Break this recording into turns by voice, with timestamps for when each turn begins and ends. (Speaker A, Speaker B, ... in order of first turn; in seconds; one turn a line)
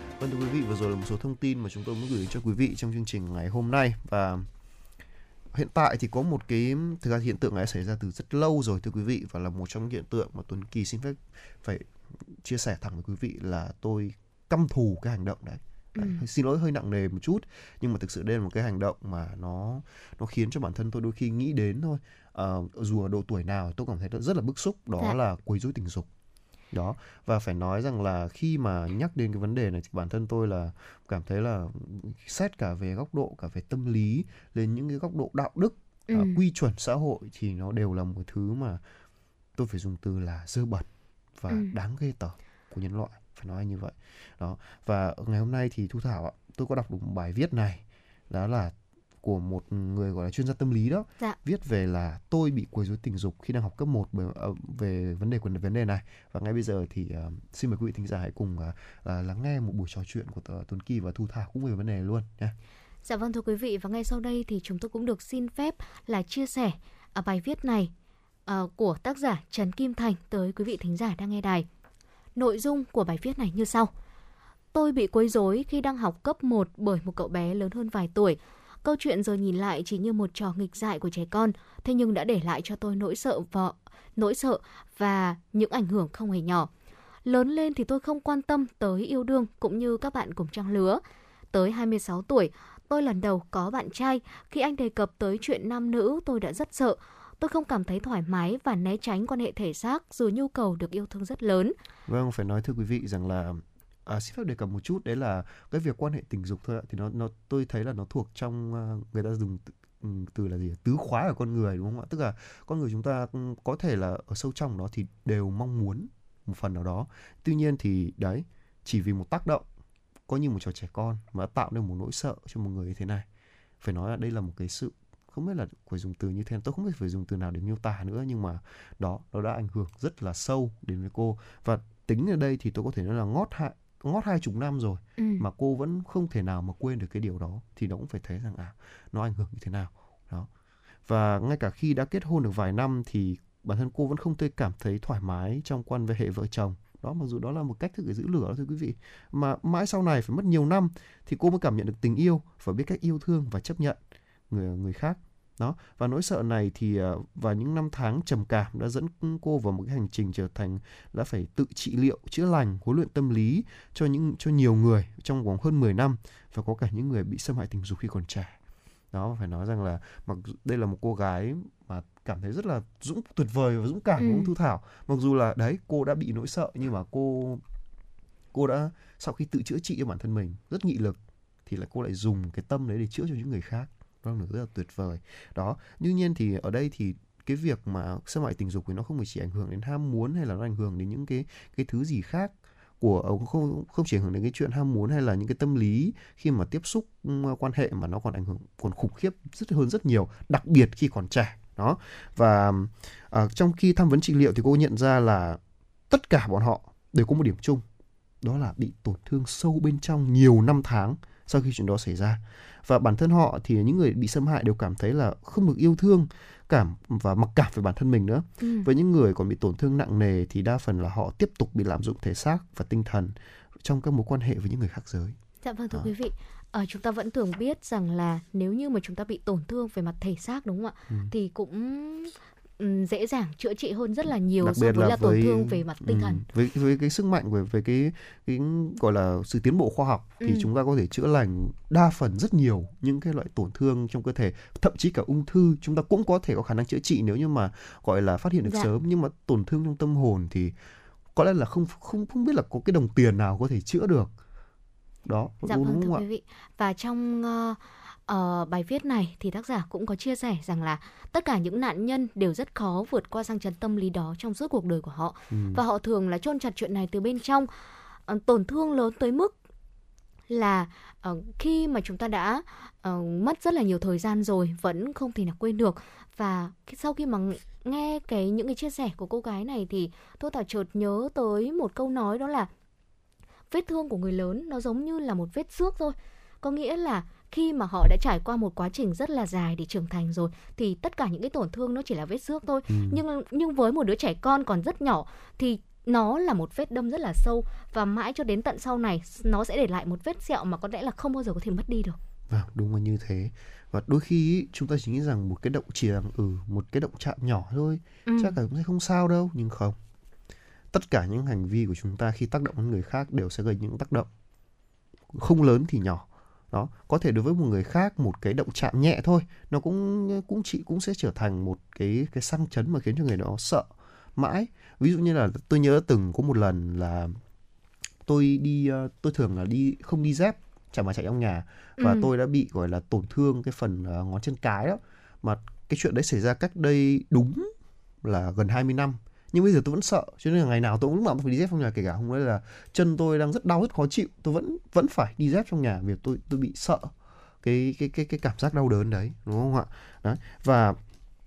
Speaker A: 0.2-4.5
Speaker A: 5.5-26.1
Speaker B: 15.9-16.2
Speaker A: 26.7-38.8
Speaker B: 36.1-36.4
Speaker A: 39.5-62.5
Speaker B: 63.0-67.9
Speaker B: 68.5-71.7
Speaker B: 72.3-73.9
Speaker B: 74.7-86.7
Speaker B: 87.2-91.0
Speaker B: 91.5-101.7
Speaker A: 102.1-119.7
Speaker A: 120.3-123.2
Speaker A: 123.8-140.5
Speaker A: 141.1-154.0
Speaker A: 154.5-168.6
Speaker A: 169.1-177.6
Speaker B: 174.2-174.5
Speaker A: 178.5-205.6
Speaker A: 206.1-207.8
Speaker A: 208.4-225.3
Speaker B: 218.6-218.9
Speaker B: 225.6-236.4
Speaker A: 234.6-250.7
Speaker B: 240.4-240.7
Speaker A: 251.3-254.3
Speaker A: 255.2-256.2
Speaker B: 255.7-267.7
Speaker A: 265.5-265.8
Speaker B: 268.3-269.5
Speaker B: 270.5-282.7
Speaker B: 283.7-302.2
Speaker A: 292.9-293.2
Speaker A: 302.5-310.0
Speaker B: 308.2-308.5
Speaker A: 310.9-314.3
Speaker A: 315.3-327.4
Speaker A: 328.3-337.7
Speaker B: 332.0-332.3
Speaker A: 338.2-351.0